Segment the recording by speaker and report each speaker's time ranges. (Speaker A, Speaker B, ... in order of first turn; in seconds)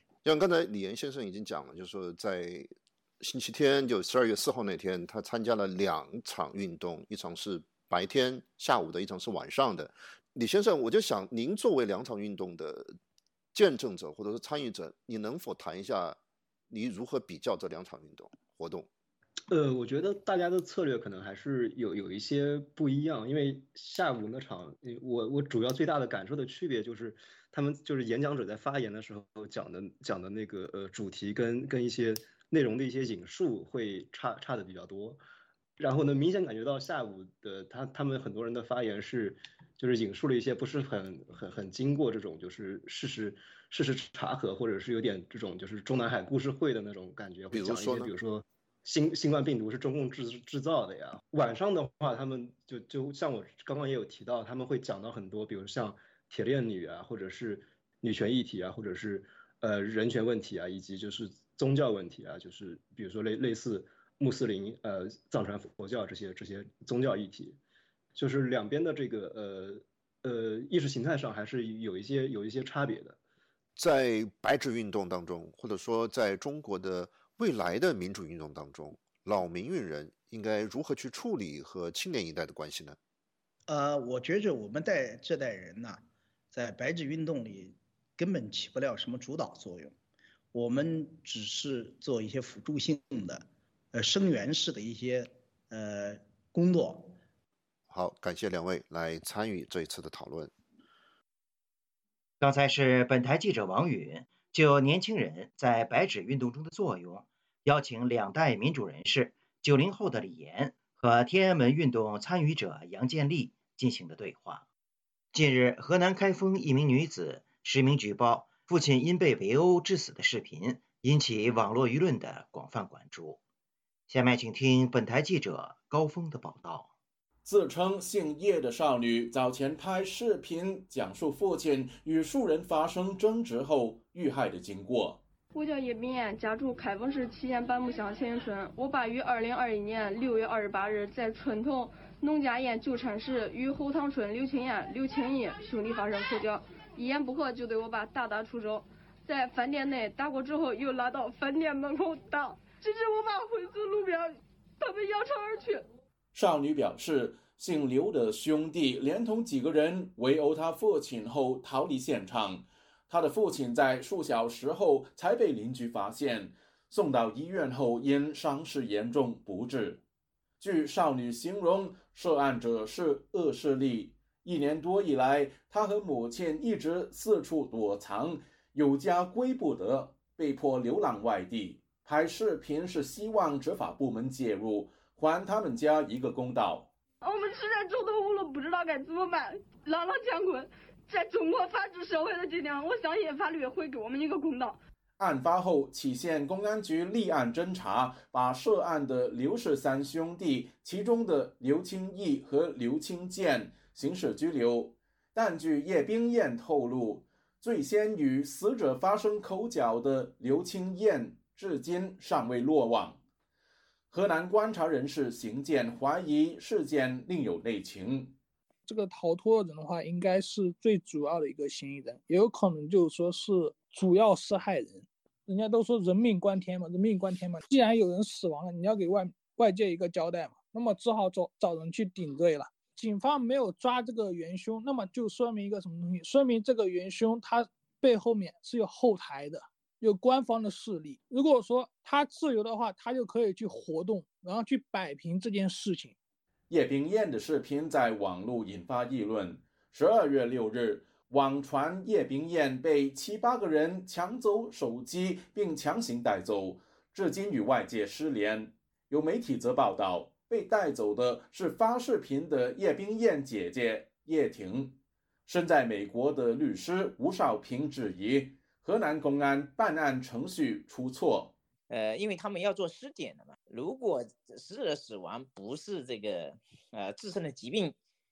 Speaker A: 0.2-13.0, 13.5-16.2, 16.7-18.9, 47.5-48.1, 73.8-83.0, 97.9-100.5
Speaker B: 19.5-35.2, 35.8-67.6, 68.2-73.2
Speaker C: 83.7-90.0, 90.5-97.2
Speaker D: 102.4-114.7, 115.3-123.4, 124.1-126.9
Speaker E: 127.5-135.2, 156.3-170.0, 170.6-186.9, 195.2-213.2, 214.1-218.3, 246.7-271.5
Speaker F: 135.5-155.8, 187.2-194.8
Speaker G: 218.9-246.2
Speaker H: 271.9-277.9